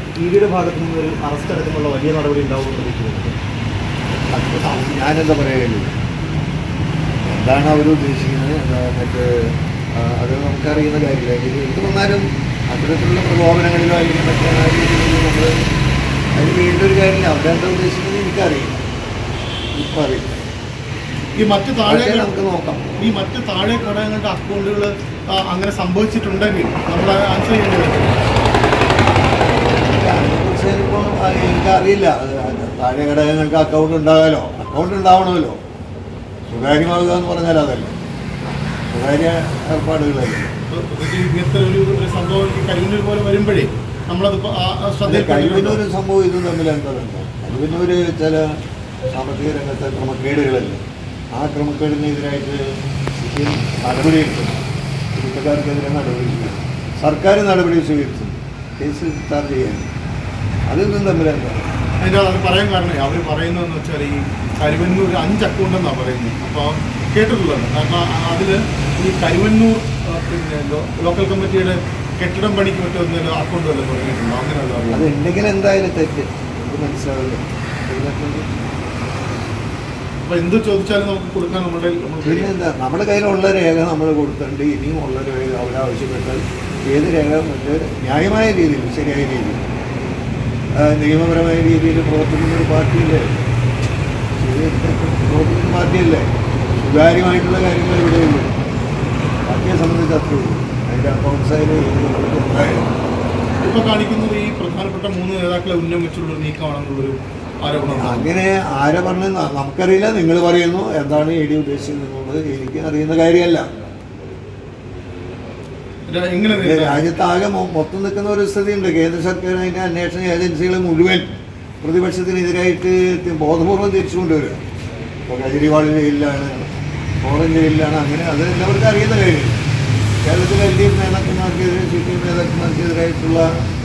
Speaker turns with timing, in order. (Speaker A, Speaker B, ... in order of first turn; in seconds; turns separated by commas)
Speaker A: 0.2-3.4, Speaker B: 4.3-5.9, Speaker B: 7.3-15.5, Speaker B: 16.4-18.8, Speaker B: 19.8-20.4, Speaker C: 21.4-22.3, Speaker B: 21.8-22.9, Speaker C: 23.0-28.3, Speaker B: 29.6-35.6, Speaker B: 36.5-38.0, Speaker B: 38.9-40.5, Speaker C: 40.7-45.8, Speaker B: 45.0-48.6, Speaker B: 49.1-50.8, Speaker B: 51.3-59.9, Speaker B: 60.7-61.7, Speaker C: 62.0-75.1, Speaker B: 74.9-78.5, Speaker C: 80.2-82.5, Speaker B: 82.2-89.6, Speaker B: 90.8-93.5, Speaker B: 94.4-96.3, Speaker B: 96.8-98.5, Speaker B: 99.5-102.9, Speaker C: 103.6-108.3, Speaker B: 107.8-113.7, Speaker C: 116.1-117.0, Speaker B: 116.5-121.3, Speaker B: 121.8-124.6, Speaker B: 125.3-129.6, Speaker B: 130.2-133.5